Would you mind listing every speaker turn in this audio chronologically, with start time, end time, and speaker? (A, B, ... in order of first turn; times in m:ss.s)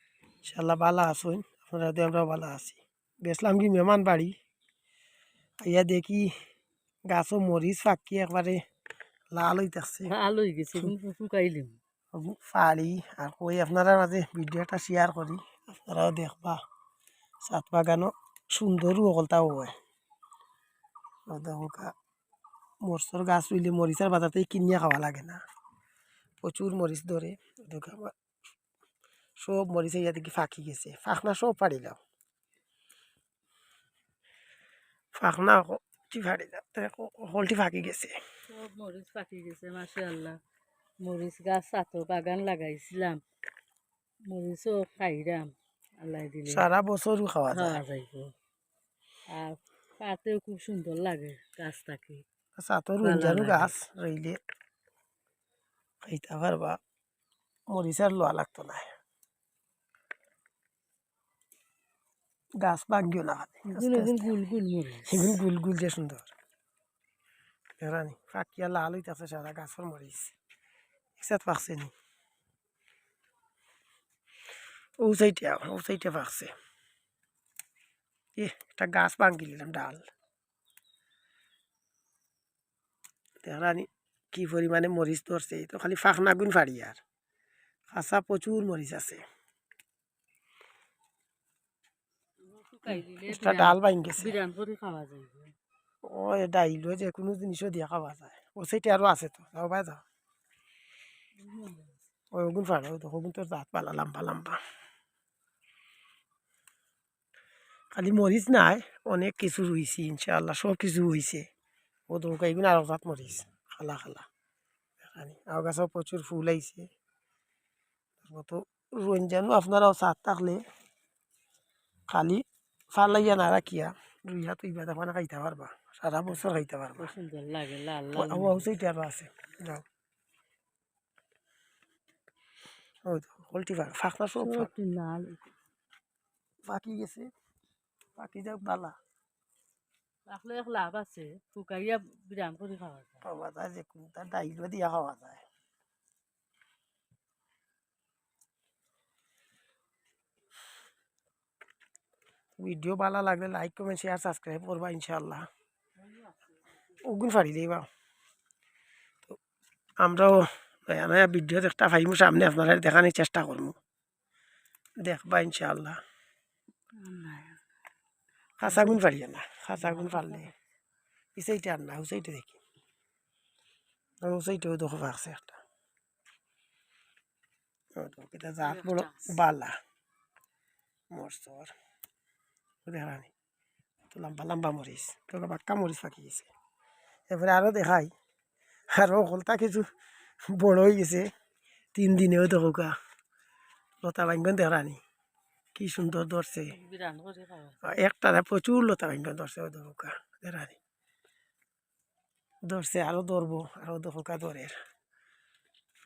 0:00.4-0:04.3 A
0:05.6-0:06.3 A
0:07.1-0:08.6 A
0:09.3-0:10.1 A
0:10.0-0:11.8 B
0:12.1-0:16.6 A
0:17.4-0:19.7 A
0:21.3-0:21.9 A
0:22.8-0:25.4 A
0:26.4-0:28.1 A
0:29.4-0:32.0 A
0:35.1-0:38.1 A
0:38.5-0:40.4 B
0:41.0-0:43.2 B
0:44.3-0:46.6 B
0:46.5-0:47.8 A
0:47.5-0:48.3 B
0:49.3-0:52.2 B
0:52.6-0:54.4 A
0:53.0-0:53.7 B
0:56.0-0:56.8 A
0:57.7-0:58.9 A
1:02.6-1:04.3 A
1:03.7-1:05.4 B
1:05.1-1:06.3 A
1:07.8-1:10.3 A
1:11.2-1:11.9 A
1:15.0-1:16.5 A
1:18.4-1:20.1 A
1:23.4-1:27.0 A
1:27.9-1:29.2 A
1:32.4-1:35.5 B
1:32.9-1:34.4 A
1:36.0-1:40.0 A
1:41.4-1:42.0 B
1:42.3-1:44.6 A
1:47.9-1:51.4 A
1:52.1-1:54.2 A
1:55.0-1:56.9 A
1:58.2-2:00.6 A
2:02.1-2:07.1 A
2:07.0-2:08.7 B
2:08.1-2:09.8 A
2:13.0-2:14.7 A
2:14.4-2:15.5 B
2:16.6-2:17.3 A
2:18.2-2:19.0 A
2:20.3-2:23.2 B
2:23.2-2:25.4 A
2:32.6-2:35.5 A
2:36.0-2:37.0 B
2:37.0-2:37.9 A
2:40.0-2:43.8 A
2:45.0-2:46.0 A
2:47.0-2:47.6 B
2:48.6-2:50.5 A
2:48.6-2:49.0 B
2:49.8-2:50.5 B
2:51.4-2:52.6 A
2:54.2-2:55.6 A
2:58.0-2:59.8 A
2:58.6-2:59.4 B
3:01.1-3:01.7 A
3:02.8-3:03.3 A
3:04.1-3:06.5 A
3:07.3-3:08.1 A
3:08.9-3:09.9 A
3:10.5-3:11.3 A
3:11.9-3:12.9 A
3:14.0-3:15.0 A
3:15.7-3:16.7 A
3:16.7-3:17.9 B
3:17.8-3:20.8 A
3:22.6-3:24.8 A